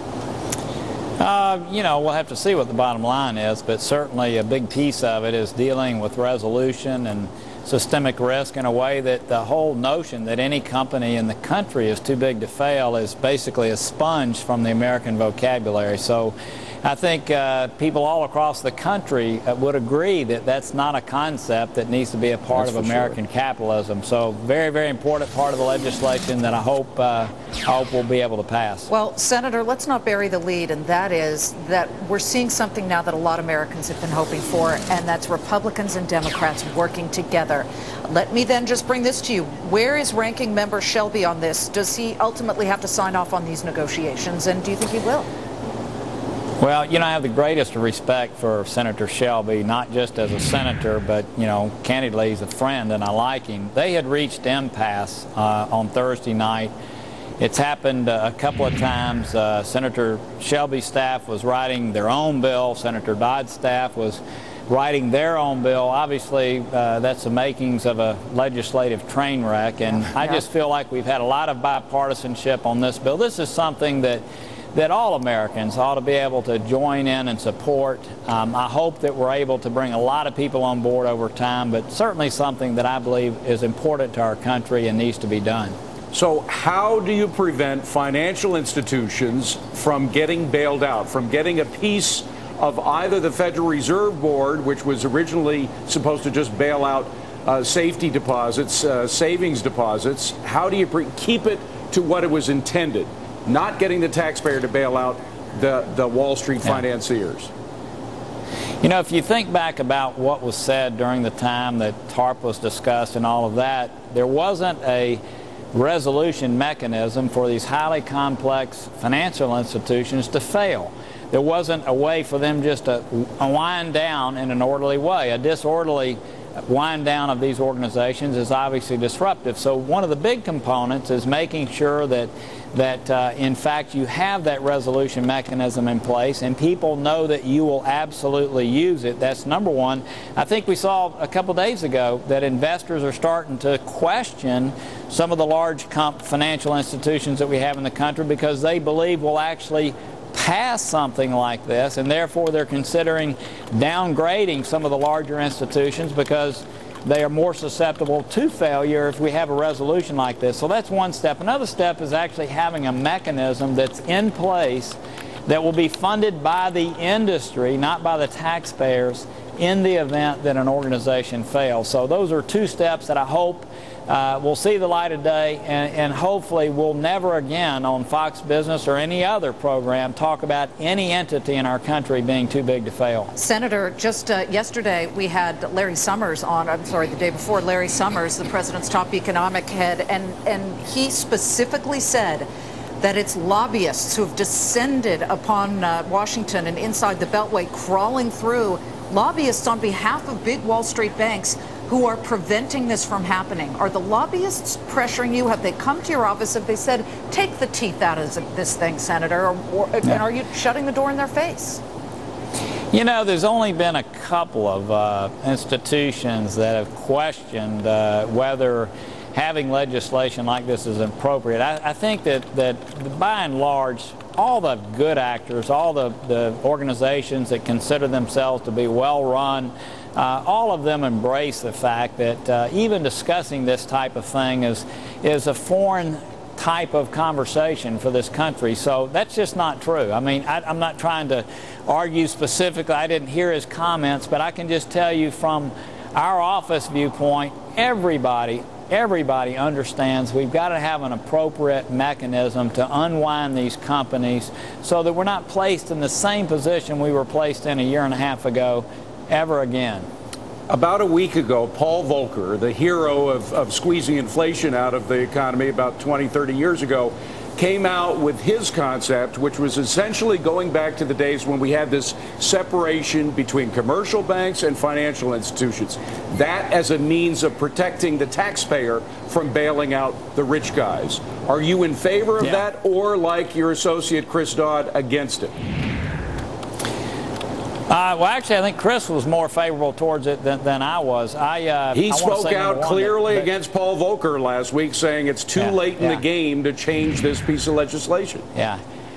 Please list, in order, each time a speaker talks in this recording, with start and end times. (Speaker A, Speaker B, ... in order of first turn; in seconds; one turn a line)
Speaker A: 1.2-28.9
Speaker B: 22.5-23.2
Speaker C: 28.9-45.3
Speaker A: 46.6-56.7
Speaker A: 57.4-74.2
Speaker C: 70.0-70.4
Speaker A: 74.7-85.7
Speaker B: 86.1-107.5
Speaker A: 108.8-115.2
Speaker A: 115.7-183.3
Speaker C: 183.3-192.5
Speaker C: 193.0-211.8
Speaker A: 212.9-260.1
Speaker B: 260.7-285.5
Speaker A: 287.9-293.5
Speaker B: 291.9-298.4
Speaker A: 295.6-296.2
Speaker A: 298.5-298.8